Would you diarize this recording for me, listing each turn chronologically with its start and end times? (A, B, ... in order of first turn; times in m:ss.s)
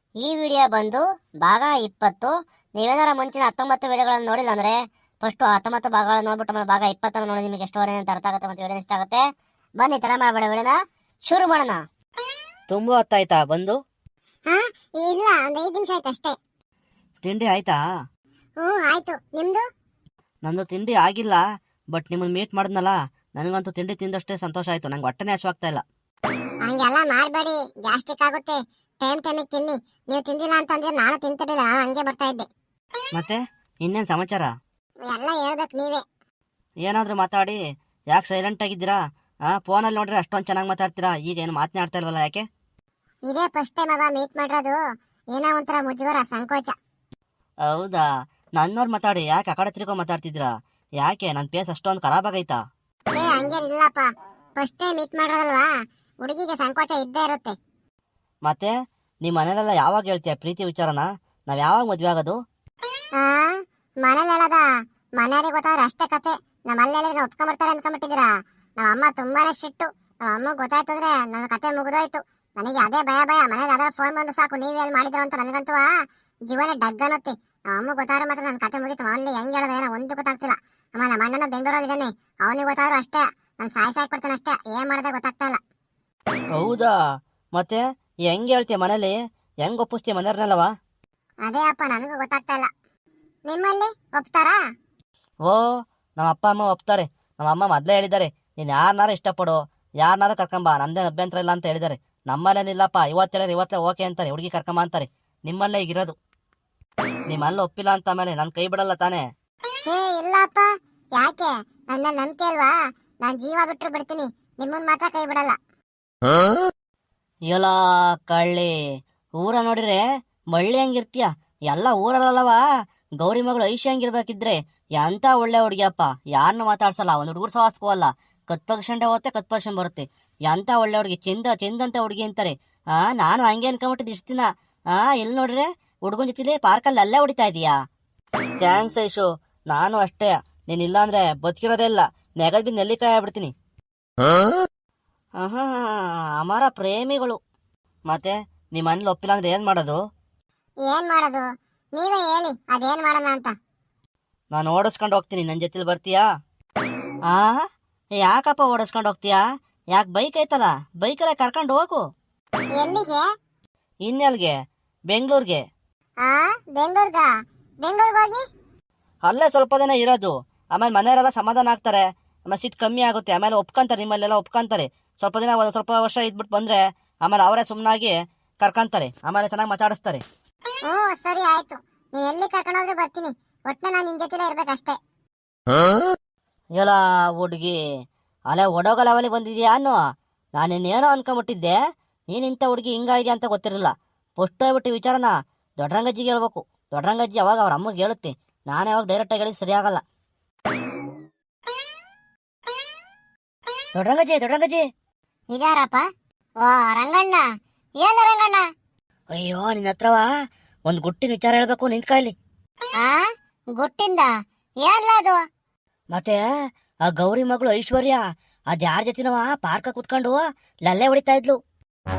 0:00.2-0:09.2 A
0:09.8-0:11.8 A
0:12.7-0:13.8 B
0:14.5-0:16.4 C
0:17.2-0:17.8 B
0:18.6-0:19.6 C
0:20.4-0:21.4 B
0:21.9-0:25.8 B
0:26.6-0:32.5 C
0:33.1-0:34.5 B
0:35.0-0:36.0 C
0:36.8-0:37.6 B
0:38.1-0:39.0 B
0:39.5-0:42.4 B
0:43.3-0:44.8 C
0:45.3-0:46.7 C
0:47.7-0:48.1 B
0:48.6-0:52.6 B
0:53.1-0:55.7 C
0:56.2-0:57.6 C
0:58.4-1:02.4 B
1:03.2-1:04.6 C
1:05.2-1:15.9 C
1:16.5-1:25.6 C
1:26.6-1:26.9 B
1:27.6-1:30.7 B
1:31.4-1:32.7 C
1:33.5-1:34.6 C
1:36.2-1:46.2 B
1:47.3-1:49.2 B
1:49.8-1:55.6 C
1:57.5-1:57.8 B
1:58.3-1:58.7 B
1:59.4-2:00.0 B
2:00.5-2:02.6 B
2:03.2-2:17.7 B
2:18.6-2:23.5 B
2:25.4-2:27.4 B
2:28.1-2:30.0 B
2:30.9-2:33.5 C
2:34.5-2:36.2 B
2:37.3-2:37.6 B
2:38.2-2:39.4 B
2:39.9-2:42.0 B
2:42.8-2:43.3 C
2:44.0-2:44.6 B
2:45.1-2:45.6 B
2:46.2-2:47.3 C
2:47.8-2:48.4 C
2:49.2-3:00.2 B
3:00.8-3:05.0 C
3:06.8-3:07.8 B
3:08.5-3:10.0 B
3:10.6-3:11.8 B
3:12.3-3:20.0 B
3:24.0-3:24.8 B
3:25.5-3:26.1 C
3:26.6-3:27.4 C
3:28.0-3:28.7 C
3:29.4-3:30.3 B
3:30.9-3:32.4 B
3:33.8-3:34.3 C
3:34.8-3:35.4 C
3:36.1-3:36.4 B
3:37.1-3:38.2 B
3:38.7-3:41.6 B